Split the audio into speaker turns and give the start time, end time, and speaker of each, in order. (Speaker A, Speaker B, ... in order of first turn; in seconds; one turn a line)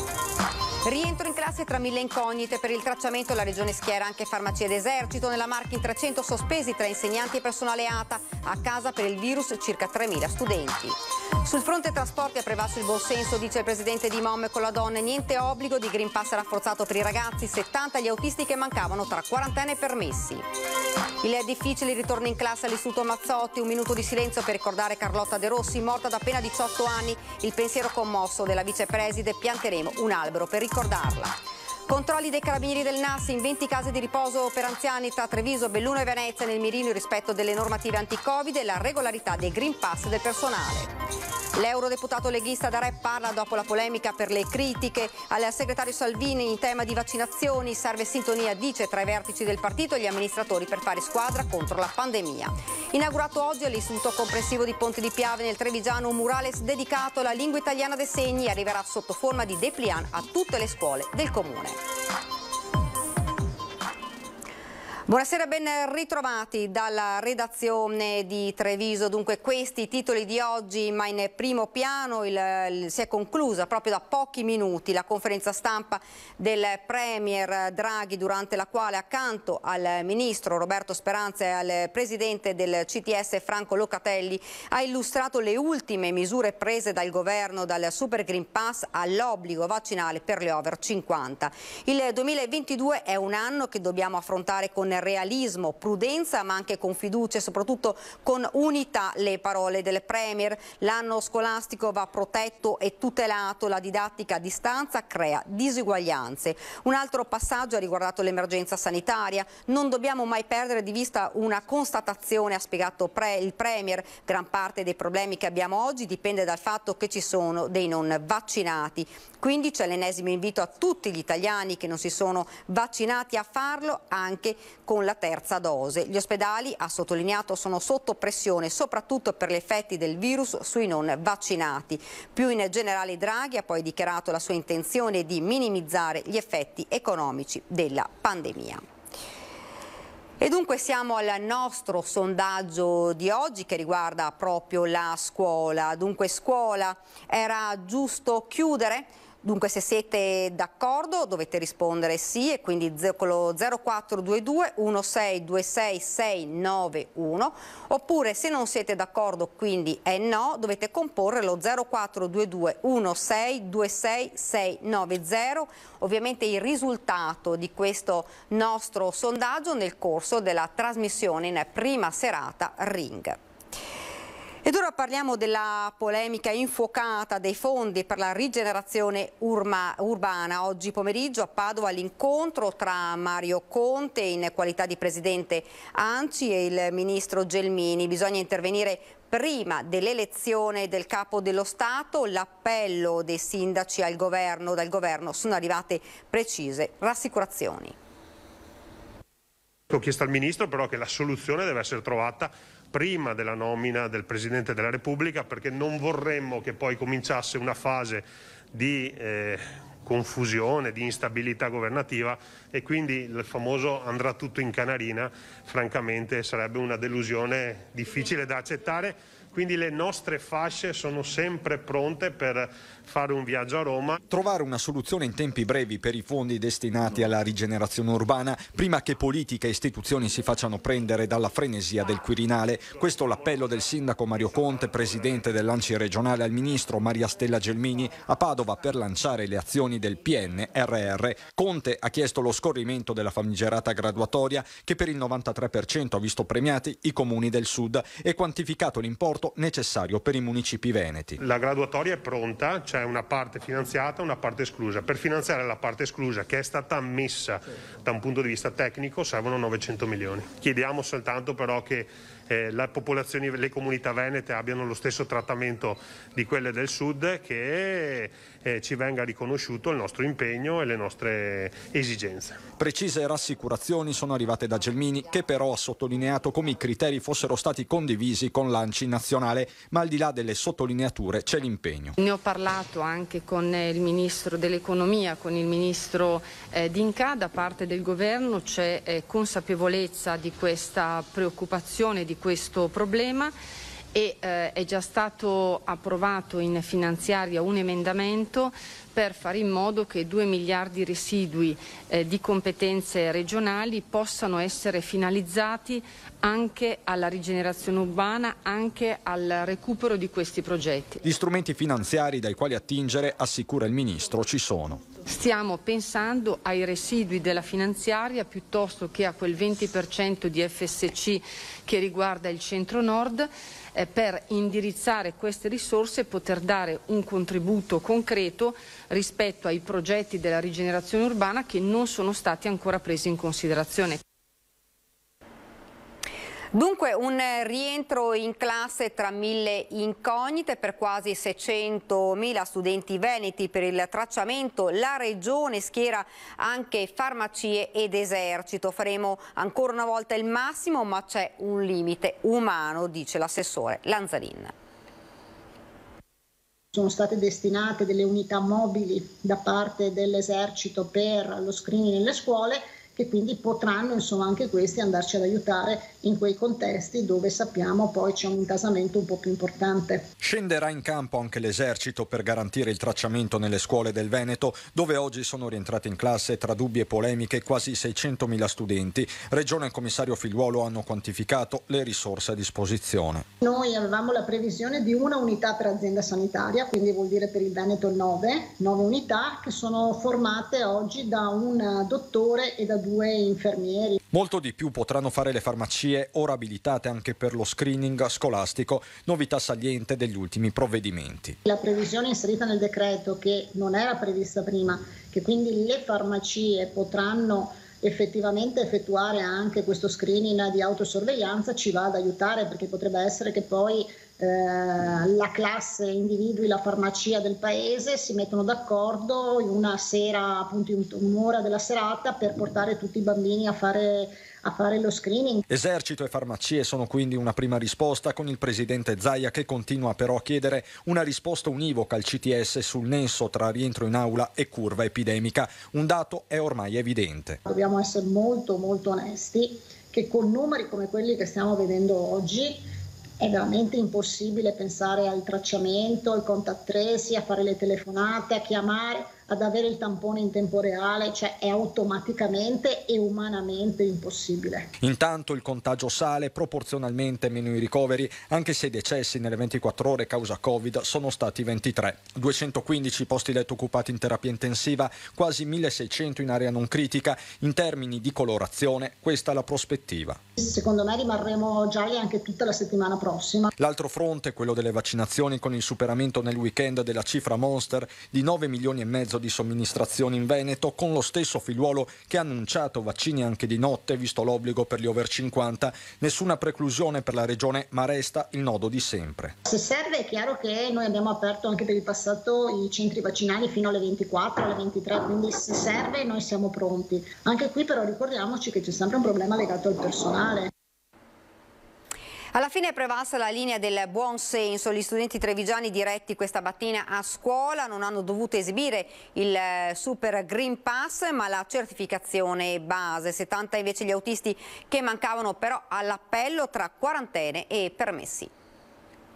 Speaker A: 0.8-20.4
Speaker A: 21.2-31.3
Speaker A: 31.9-40.9
Speaker A: 41.6-61.8
Speaker A: 65.1-138.8
Speaker A: 140.4-173.4
Speaker A: 174.6-197.9
Speaker B: 199.9-224.2
Speaker C: 224.3-251.4
Speaker B: 251.4-272.6
Speaker C: 272.8-282.2
Speaker D: 282.2-293.5
Speaker D: 294.1-311.2
Speaker C: 311.2-315.0
Speaker D: 315.2-334.2
Speaker A: 336.7-354.7
Speaker E: 356.9-370.2
Speaker C: 370.4-383.5
Speaker E: 383.6-394.2
Speaker C: 394.3-401.6
Speaker E: 401.7-425.6
Speaker C: 425.7-437.6
Speaker E: 437.7-442.8
Speaker E: 443.4-454.9
Speaker C: 455.0-470.4
Speaker E: 470.6-473.7
Speaker C: 473.8-489.6
Speaker E: 489.7-500.7
Speaker A: 502.5-518.5